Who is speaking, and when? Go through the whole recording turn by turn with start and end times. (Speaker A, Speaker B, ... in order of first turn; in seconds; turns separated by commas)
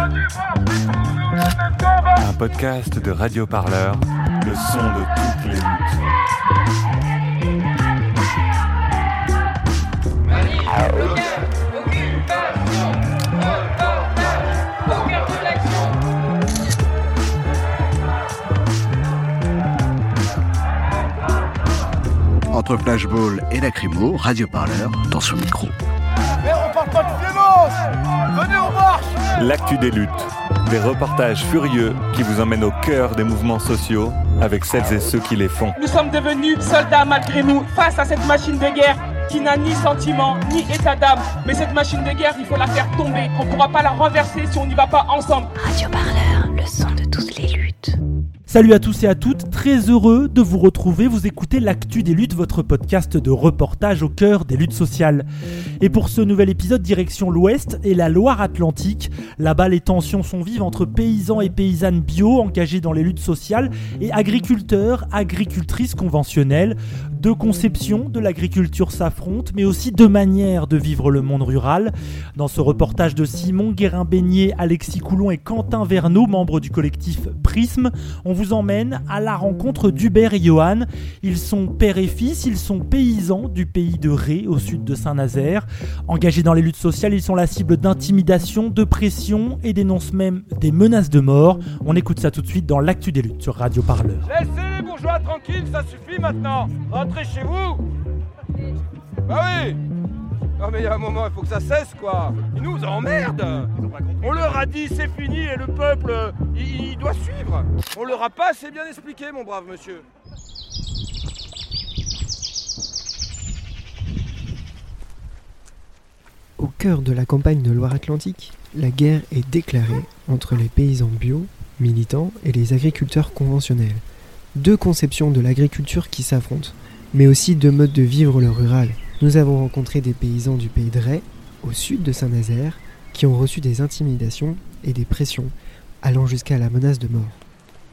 Speaker A: 2.1-6.0, Speaker B: 10.6-12.7, Speaker B: 14.9-15.9, Speaker C: 22.5-25.7, Speaker D: 26.4-29.3, Speaker A: 29.4-35.8, Speaker B: 35.8-45.5, Speaker E: 45.6-48.0, Speaker F: 48.5-55.3, Speaker F: 55.8-94.3, Speaker D: 94.3-97.8, Speaker D: 99.3-99.8, Speaker D: 100.6-110.0, Speaker G: 116.6-137.4